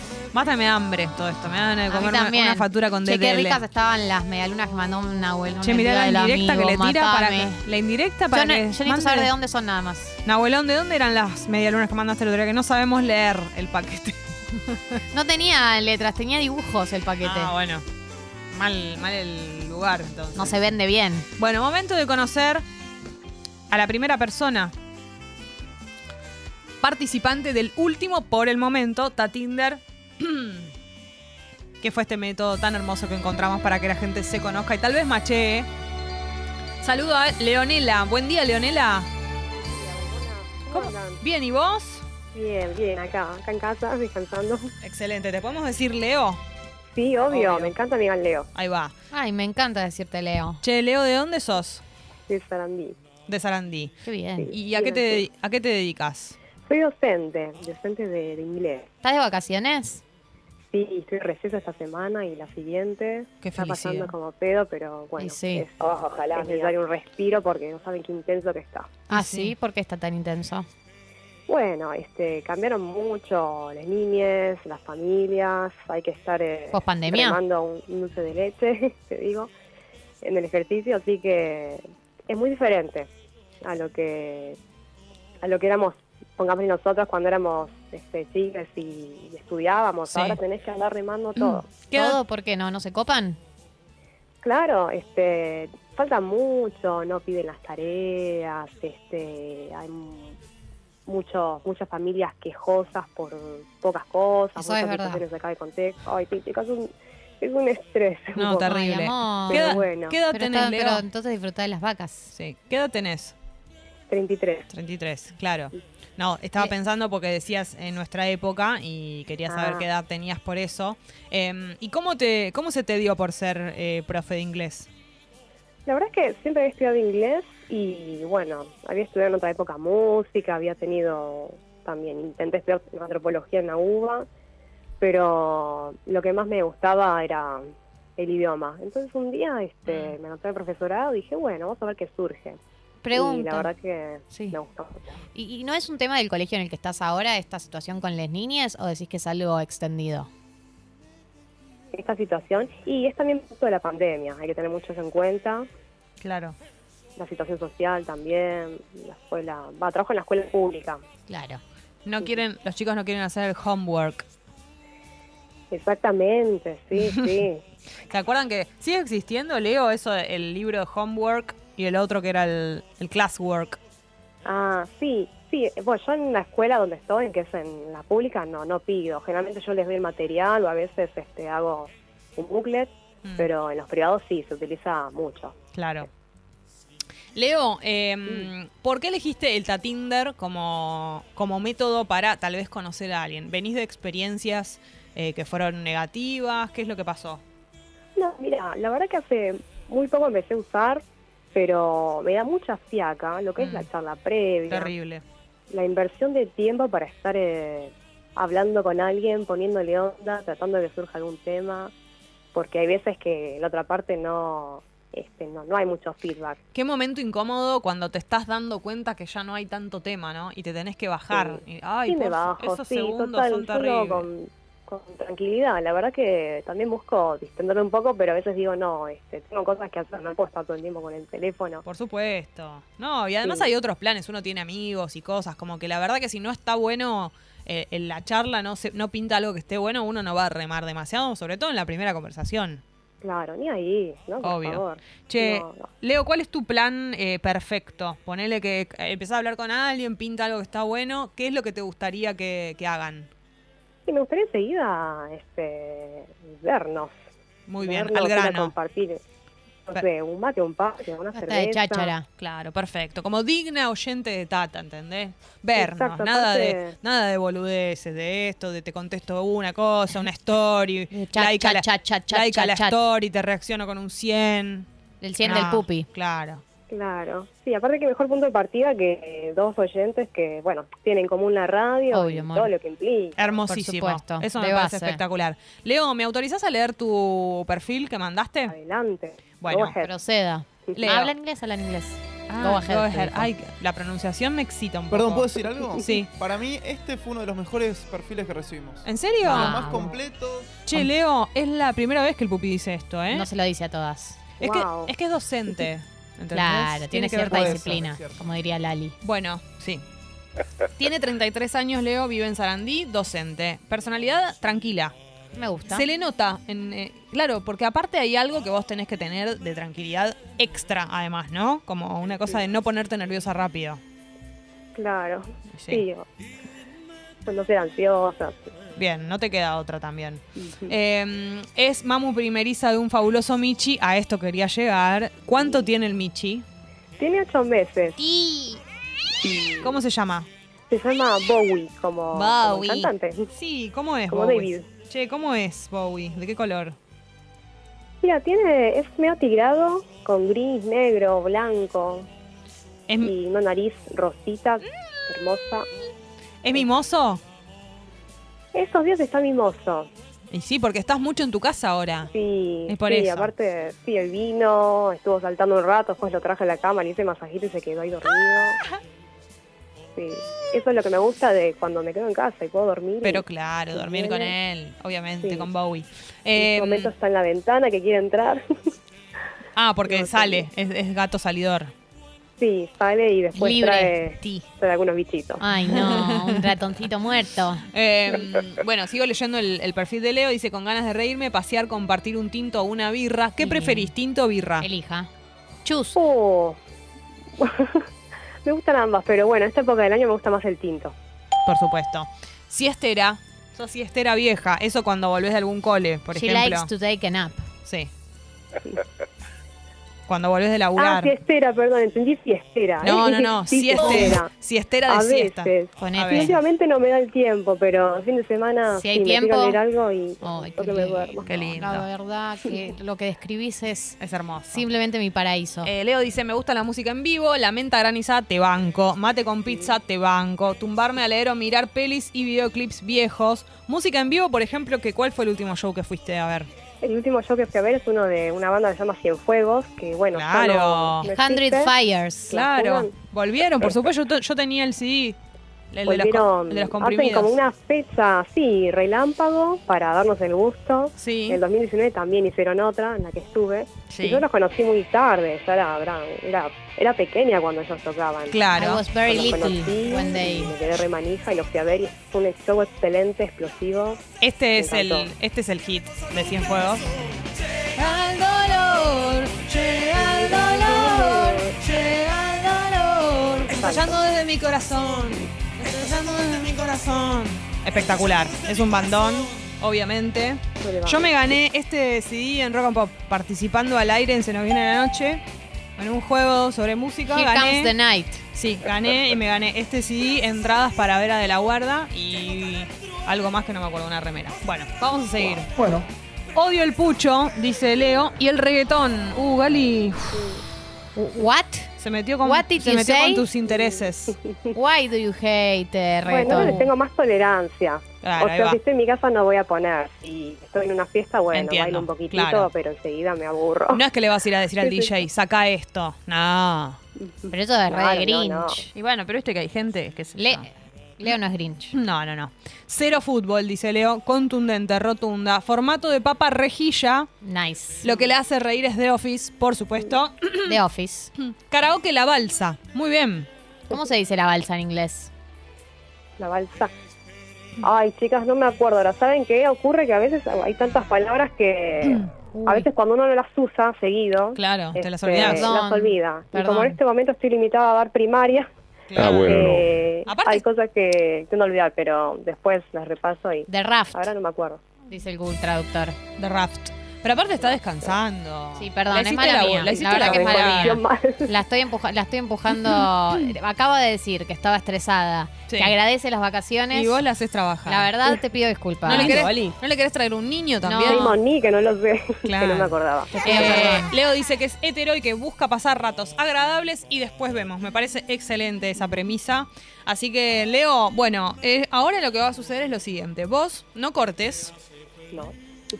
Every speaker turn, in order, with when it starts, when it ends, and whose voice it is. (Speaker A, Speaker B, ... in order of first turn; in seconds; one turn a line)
Speaker A: 0.3-3.6
Speaker B: 1.9-7.6
Speaker A: 5.6-9.3
Speaker B: 8.3-10.2
Speaker A: 10.2-15.0
Speaker B: 15.1-17.5
Speaker A: 17.2-17.8
Speaker A: 18.5-20.7
Speaker B: 20.3-21.3
Speaker A: 21.4-22.6
Speaker A: 23.7-24.7
Speaker A: 26.8-30.7
Speaker A: 31.8-35.7
Speaker A: 36.8-39.1
Speaker C: 39.6-41.2
Speaker A: 40.7-42.0
Speaker C: 42.3-44.7
Speaker A: 44.8-46.4
Speaker C: 46.9-48.5
Speaker A: 47.3-47.7
Speaker A: 48.5-48.9
Speaker B: 49.1-50.6
Speaker A: 50.6-51.8
Speaker C: 52.3-52.9
Speaker A: 53.3-54.0
Speaker B: 54.0-54.5
Speaker C: 54.4-55.2
Speaker A: 54.5-56.4
Speaker C: 56.7-58.9
Speaker B: 59.0-60.0
Speaker C: 60.7-68.9
Speaker A: 63.4-64.1
Speaker B: 65.2-65.7
Speaker D: 65.8-66.8
Speaker B: 69.1-70.7
Speaker A: 69.1-69.5
Speaker C: 71.5-79.5
Speaker B: 76.7-77.4
Speaker C: 80.2-83.1
Speaker C: 83.6-84.6
Speaker C: 85.4-91.7
Speaker A: 90.1-90.4
Speaker A: 91.4-92.2
Speaker B: 91.9-93.4
Speaker C: 94.4-100.4
Speaker C: 101.1-108.8
Speaker B: 104.6-105.2
Speaker A: 108.4-111.0
Speaker B: 108.6-109.7
Speaker C: 109.5-110.2
Speaker B: 110.3-112.3
Speaker A: 112.3-113.3
Speaker C: 114.1-114.7
Speaker A: 114.7-124.9
Speaker C: 119.5-119.8
Speaker C: 125.9-134.3
Speaker C: 135.0-142.6
Speaker A: 139.9-140.1
Speaker B: 143.0-143.7
Speaker C: 143.1-145.1
Speaker B: 144.3-144.6
Speaker B: 145.3-150.3
Speaker C: 151.9-155.7
Speaker A: 156.2-156.6
Speaker C: 157.2-161.0
Speaker B: 161.3-161.6
Speaker A: 162.1-164.2
Speaker C: 165.7-167.6
Speaker A: 167.0-167.3
Speaker A: 168.1-173.8
Speaker C: 174.4-185.7
Speaker A: 185.7-186.1
Speaker A: 187.3-197.4
Speaker C: 198.2-201.0
Speaker C: 201.5-204.9
Speaker A: 203.6-203.9
Speaker A: 204.7-205.2
Speaker C: 205.7-211.9
Speaker C: 212.5-216.6
Speaker A: 216.7-224.3
Speaker C: 221.3-231.8
Speaker A: 231.8-242.8
Speaker C: 233.4-233.7
Speaker C: 243.2-245.9
Speaker A: 244.4-253.3
Speaker C: 254.1-257.1
Speaker A: 257.7-258.7
Speaker C: 257.8-259.2
Speaker C: 259.9-262.1
Speaker B: 261.3-262.2
Speaker A: 262.4-274.9
Speaker C: 265.8-266.9
Speaker B: 271.1-273.0
Speaker B: 275.2-276.1
Speaker A: 275.4-276.6
Speaker C: 276.9-283.5
Speaker B: 282.1-282.7
Speaker A: 283.4-288.7
Speaker B: 283.7-285.2
Speaker C: 288.7-290.1
Speaker A: 289.6-289.9
Speaker B: 290.0-293.5
Speaker A: 290.9-291.3
Speaker A: 292.5-296.3
Speaker E: 295.1-300.8
Speaker A: 299.1-299.8
Speaker B: 299.4-300.2
Speaker A: 300.9-303.5
Speaker B: 303.3-304.4
Speaker C: 304.6-305.1
Speaker A: 304.6-308.0
Speaker B: 306.5-309.2
Speaker E: 307.4-308.4
Speaker A: 309.2-310.1
Speaker A: 310.9-315.1
Speaker B: 315.6-316.1
Speaker A: 315.9-324.0
Speaker C: 324.9-326.3
Speaker A: 325.7-326.0
Speaker C: 327.4-328.7
Speaker A: 328.9-336.6
Speaker C: 330.6-330.9
Speaker C: 337.2-338.2
Speaker B: 338.2-338.8
Speaker C: 339.4-339.9
Speaker A: 339.8-340.5
Speaker C: 340.9-343.5
Speaker A: 342.3-347.0
Speaker C: 344.3-344.9
Speaker C: 348.2-352.3
Speaker C: 353.2-355.9
Speaker A: 356.6-357.4
Speaker C: 358.7-360.1
Speaker A: 360.5-362.3
Speaker C: 362.3-368.8
Speaker A: 362.9-363.5
Speaker C: 370.2-374.6
Speaker A: 373.2-377.1
Speaker C: 375.4-375.7
Speaker C: 376.6-378.9
Speaker A: 379.7-381.9
Speaker C: 380.1-380.7
Speaker C: 382.6-385.7
Speaker B: 383.6-384.2
Speaker B: 385.6-387.8
Speaker A: 385.9-386.7
Speaker A: 387.9-394.9
Speaker B: 393.6-394.1
Speaker B: 394.8-395.3
Speaker B: 395.8-396.2
Speaker C: 396.1-396.8
Speaker C: 397.6-398.1
Speaker C: 398.6-401.1
Speaker A: 401.7-406.9
Speaker B: 406.3-407.6
Speaker A: 407.8-408.1
Speaker A: 410.3-411.3
Speaker C: 411.0-414.5
Speaker A: 413.0-416.5
Speaker C: 415.1-421.8
Speaker B: 416.0-416.6
Speaker B: 418.9-419.8
Speaker B: 420.4-424.2
Speaker A: 421.4-422.1
Speaker A: 424.2-424.8
Speaker B: 424.7-425.9
Speaker A: 425.8-436.7
Speaker C: 437.0-441.9
Speaker A: 440.3-441.3
Speaker B: 441.3-442.6
Speaker C: 442.5-443.1
Speaker A: 442.5-445.4
Speaker A: 445.9-447.5
Speaker C: 446.1-458.6
Speaker A: 451.2-451.6
Speaker A: 454.1-454.4
Speaker A: 458.5-459.0
Speaker B: 458.7-460.7
Speaker C: 459.2-464.2
Speaker A: 464.4-467.1
Speaker C: 464.8-465.3
Speaker A: 467.8-485.4
Speaker C: 470.2-471.8
Speaker C: 473.7-474.2
Speaker C: 480.8-481.3
Speaker A: 486.0-487.9
Speaker B: 487.3-488.4
Speaker A: 488.6-495.7
Speaker D: 495.8-496.1
Speaker A: 496.5-500.5
Speaker B: 501.1-503.4
Speaker A: 502.0-504.4
Speaker C: 503.7-504.7
Speaker B: 504.7-506.8
Speaker C: 506.3-514.0
Speaker A: 506.5-506.9
Speaker A: 508.2-508.8
Speaker A: 511.5-512.7
Speaker A: 513.9-517.0
Speaker C: 514.8-515.1
Speaker C: 517.2-518.9
Speaker B: 517.5-518.9
Speaker A: 518.9-520.7
Speaker B: 520.4-521.9
Speaker A: 521.9-527.3
Speaker B: 527.4-528.1
Speaker A: 528.0-530.8
Speaker B: 530.6-531.3
Speaker A: 531.4-533.5
Speaker B: 533.9-535.3
Speaker C: 536.4-536.9
Speaker C: 537.8-548.7
Speaker B: 542.6-542.9
Speaker A: 544.5-545.7
Speaker B: 545.4-547.0
Speaker A: 549.1-550.6
Speaker D: 549.2-549.8
Speaker C: 549.3-554.8
Speaker B: 553.7-554.3
Speaker B: 555.1-556.2
Speaker A: 556.4-561.0
Speaker B: 558.8-567.2
Speaker C: 559.9-561.5
Speaker A: 565.7-565.9
Speaker A: 566.9-568.1
Speaker B: 567.9-569.5
Speaker A: 569.1-571.4
Speaker D: 569.1-569.8
Speaker B: 570.8-571.4
Speaker C: 571.1-574.0
Speaker A: 572.4-584.7
Speaker B: 573.3-574.1